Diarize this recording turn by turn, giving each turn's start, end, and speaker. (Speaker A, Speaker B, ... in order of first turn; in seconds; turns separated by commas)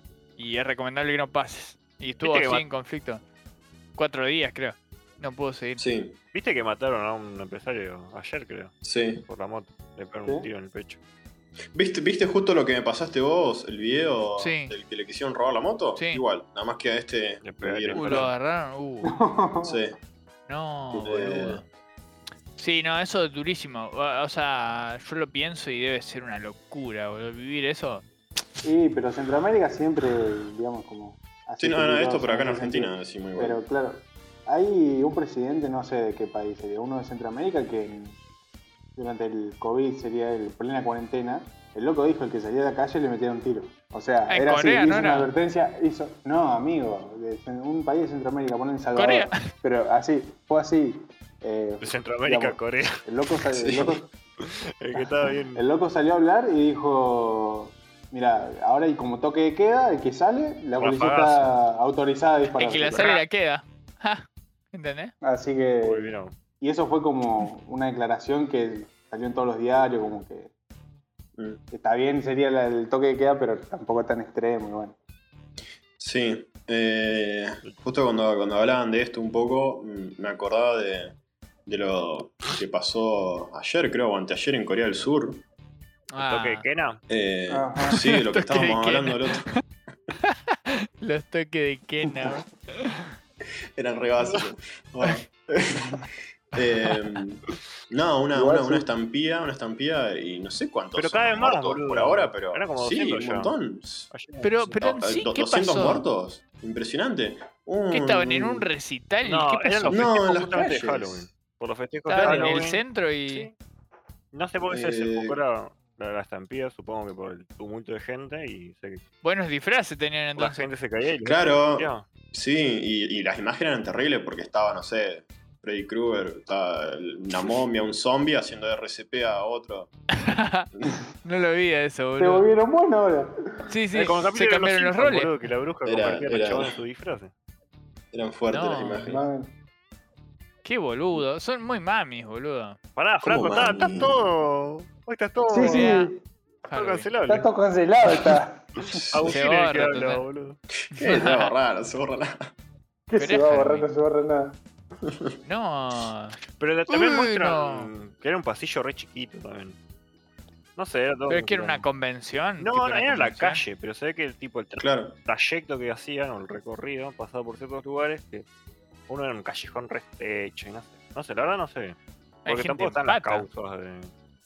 Speaker A: 0.4-3.2, Speaker B: 2.2-2.7, Speaker A: 4.0-5.8, Speaker C: 5.8-6.2, Speaker B: 6.3-11.0, Speaker C: 8.8-9.2, Speaker C: 11.7-18.3, Speaker A: 14.4-14.7, Speaker A: 16.0-16.2, Speaker B: 17.4-18.3, Speaker A: 17.9-19.2, Speaker D: 19.1-19.8, Speaker C: 19.6-20.0, Speaker A: 20.5-21.6, Speaker C: 20.9-21.6, Speaker A: 22.6-28.1, Speaker D: 28.6-38.2, Speaker C: 31.6-33.6, Speaker D: 39.0-54.1, Speaker A: 44.3-45.3, Speaker A: 49.0-49.5, Speaker B: 51.8-53.0, Speaker C: 53.6-54.0, Speaker B: 53.7-55.6, Speaker D: 55.5-63.1, Speaker B: 60.8-61.5, Speaker A: 62.6-65.1, Speaker B: 62.6-63.2, Speaker D: 65.2-70.5, Speaker B: 65.8-66.3, Speaker D: 71.7-75.0, Speaker C: 76.0-85.4, Speaker A: 86.1-86.7, Speaker B: 86.2-87.0, Speaker C: 87.1-89.5, Speaker D: 87.5-88.0, Speaker A: 87.9-89.6, Speaker A: 91.0-93.1, Speaker C: 93.8-96.0, Speaker C: 96.5-104.1, Speaker D: 98.3-98.9, Speaker B: 101.0-103.5, Speaker B: 104.1-104.8, Speaker A: 104.4-106.0, Speaker C: 104.8-108.7, Speaker A: 107.9-110.0, Speaker B: 109.2-113.5, Speaker C: 109.9-111.3, Speaker A: 112.1-113.5, Speaker C: 112.1-112.6, Speaker B: 114.3-119.0, Speaker C: 114.7-115.4, Speaker A: 119.2-120.7, Speaker B: 120.4-122.1, Speaker C: 121.2-129.9, Speaker A: 130.2-130.7, Speaker A: 131.2-132.5, Speaker D: 132.2-133.3, Speaker A: 133.7-135.3, Speaker B: 133.9-137.3, Speaker C: 135.8-136.8, Speaker C: 138.1-139.2, Speaker A: 138.5-139.2, Speaker D: 139.1-139.5, Speaker A: 140.6-142.8, Speaker B: 143.0-146.0, Speaker C: 143.2-144.2, Speaker D: 145.5-146.2, Speaker A: 145.6-146.1, Speaker A: 146.7-147.1, Speaker B: 146.7-147.5, Speaker D: 147.3-148.9, Speaker C: 149.0-149.4, Speaker B: 149.1-150.6, Speaker A: 149.2-150.2, Speaker C: 150.9-152.4, Speaker A: 151.0-151.5, Speaker D: 153.1-154.6, Speaker A: 153.2-153.9, Speaker C: 155.1-155.4, Speaker A: 155.4-156.4, Speaker B: 156.6-159.8, Speaker A: 156.9-157.9, Speaker B: 160.8-161.9, Speaker A: 161.3-163.6, Speaker B: 162.6-168.5, Speaker C: 164.8-165.2, Speaker B: 169.1-172.0, Speaker A: 172.4-173.5, Speaker B: 172.5-174.1